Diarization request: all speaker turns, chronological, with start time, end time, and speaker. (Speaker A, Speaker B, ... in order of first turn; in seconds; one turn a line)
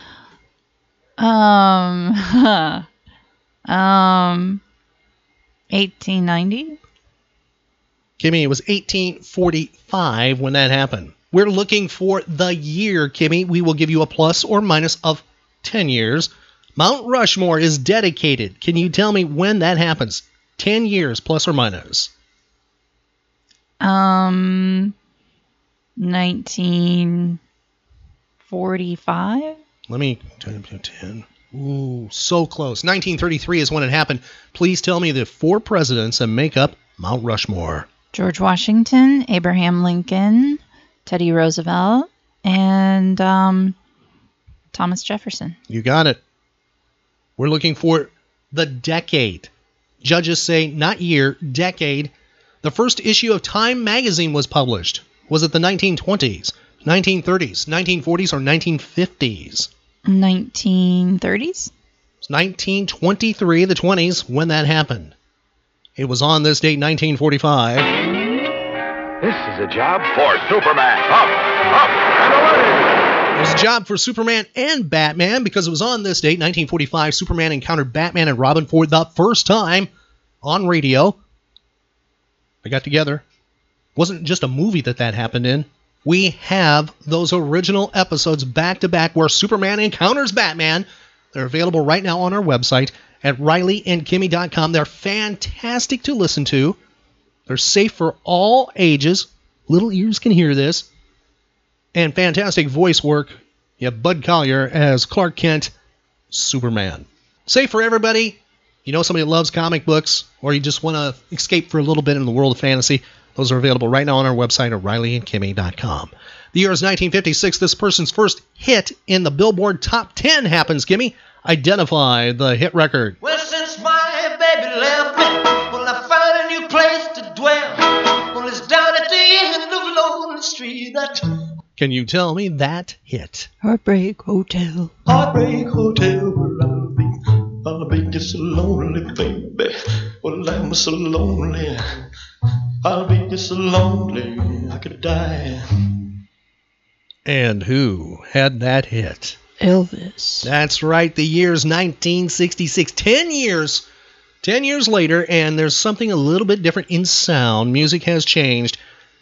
Speaker A: 1.2-2.9
Speaker A: 3.7-4.6
Speaker A: 5.7-6.8
Speaker B: 8.2-22.1
Speaker A: 23.8-24.9
Speaker A: 26.0-27.4
Speaker A: 28.4-29.6
Speaker B: 29.9-37.9
Speaker A: 38.1-43.8
Speaker A: 44.7-45.6
Speaker B: 45.7-46.2
Speaker B: 47.4-49.5
Speaker B: 50.0-59.7
Speaker A: 60.1-61.7
Speaker B: 62.2-65.1
Speaker B: 66.0-67.9
Speaker B: 73.3-79.9
Speaker B: 80.4-81.2
Speaker B: 82.6-83.2
Speaker B: 84.0-96.8
Speaker B: 97.5-100.9
Speaker B: 101.9-105.7
Speaker B: 106.3-123.2
Speaker C: 123.2-127.8
Speaker C: 128.3-131.2
Speaker B: 131.8-133.5
Speaker A: 133.6-134.9
Speaker C: 135.1-137.1
Speaker C: 137.6-141.8
Speaker C: 142.8-145.6
Speaker B: 147.2-149.4
Speaker A: 149.6-150.5
Speaker B: 150.4-153.8
Speaker B: 154.4-158.8